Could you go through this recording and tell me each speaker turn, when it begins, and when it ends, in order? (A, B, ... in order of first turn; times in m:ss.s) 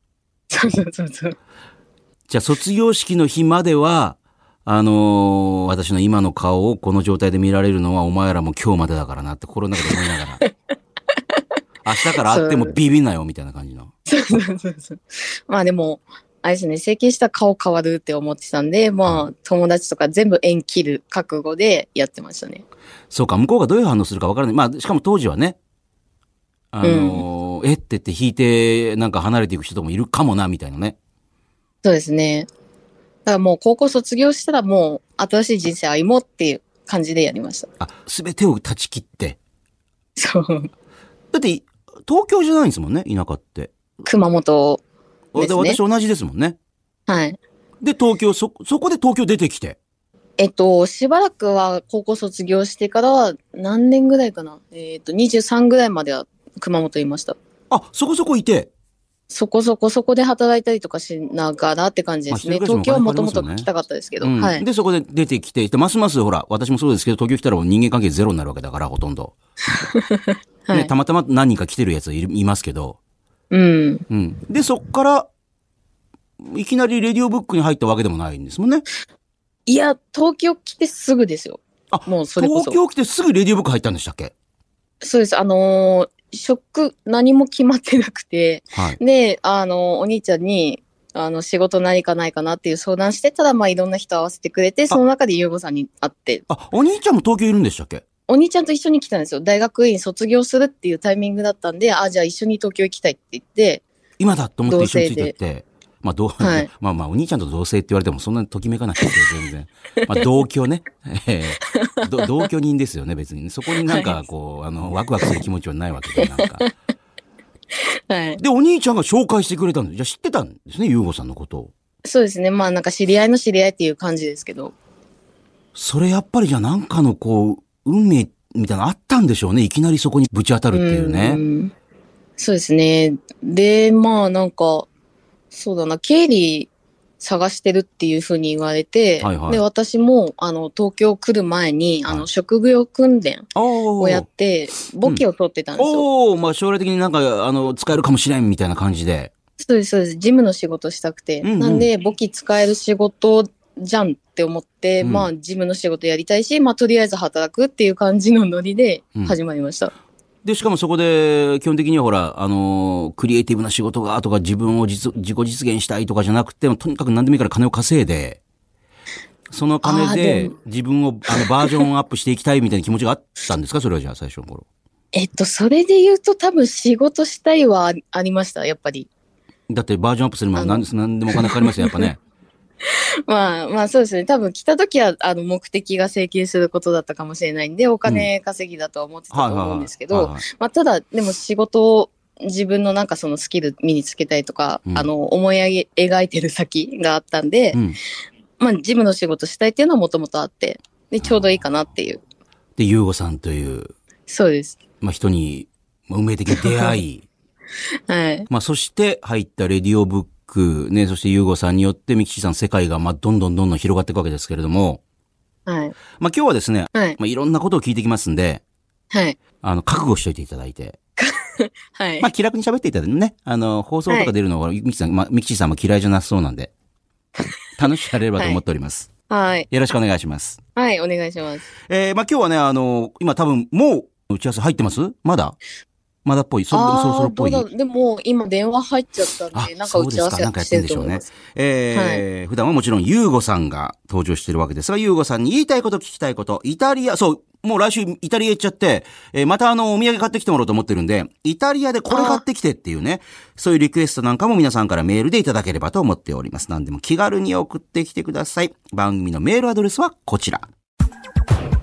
0:00.5-0:01.4 A
0:02.3-0:10.4 B
0:11.8-0:13.9 B
0:12.3-0:12.8 A
0:14.1-0:22.6 A
0:23.1-0:25.6 B
0:26.7-0:31.0 B
0:26.8-0:27.2 A
0:31.8-0:32.5 A
0:33.2-0:37.7 A
0:37.8-0:39.4 B
0:40.2-0:40.7 A
0:41.3-0:43.7 B
0:44.0-0:44.8 A
0:45.3-0:46.6 B
0:45.4-0:45.8 A
0:47.1-0:47.4 A
0:47.8-0:49.8 B
0:50.4-0:57.4 A
0:57.7-0:58.7 B
0:59.3-1:04.6 A
1:02.3-1:03.7 B
1:04.2-1:09.3 B
1:09.8-1:10.9 A
1:10.7-1:13.0 B
1:13.5-1:14.0 A
1:14.1-1:15.3 B
1:16.4-1:18.8 B
1:19.7-1:22.8 A
1:21.9-1:24.3 B
1:25.0-1:36.4 A
1:36.5-1:38.0 B
1:38.3-1:43.8 A
1:44.2-1:56.6 B
1:44.7-1:45.3 A
1:46.4-1:46.7 A
1:51.7-1:52.5 A
1:53.9-1:54.2 A
1:56.2-1:56.7 A
1:58.1-1:58.4 A
1:58.4-2:01.7 B
2:02.0-2:04.7 A
2:05.8-2:11.4 B
2:10.7-2:11.7 A
2:12.4-2:14.9 A
2:15.5-2:16.7 A
2:17.2-2:26.1 A
2:19.2-2:19.6 B
2:23.6-2:24.3 B
2:25.8-2:29.3 B
2:29.6-2:39.9 A
2:31.4-2:31.9 B
2:35.0-2:35.3 B
2:40.4-2:48.4 B
2:49.5-2:54.6 B
2:49.8-2:50.6 A
2:51.3-2:51.8 A
2:55.1-2:59.1 A
2:59.7-3:02.2 B
3:00.6-3:02.1 A
3:02.8-3:17.8 A
3:09.3-3:10.4 B
3:17.7-3:18.0 B
3:18.6-3:22.2 A
3:21.2-3:21.6 B
3:22.8-3:23.9 B
3:24.3-3:24.8 A
3:25.0-3:27.3 B
3:26.5-3:26.9 A
3:28.1-3:28.5 A
3:28.5-3:35.0 B
3:35.7-3:36.0 A
3:36.2-3:38.6 B
3:39.1-3:39.4 A
3:39.6-3:41.0 B
3:41.2-3:42.3 A
3:42.2-3:46.7 B
3:44.1-3:44.3 A
3:47.8-3:49.1 B
3:48.4-3:48.6 A
3:49.3-3:49.7 A
3:49.7-3:50.6 B
3:50.8-3:51.7 A
3:51.8-3:55.6 B
3:56.2-3:57.7 B
3:56.7-4:01.3 A
3:59.5-4:20.7 B
4:01.9-4:02.2 A
4:12.1-4:12.4 A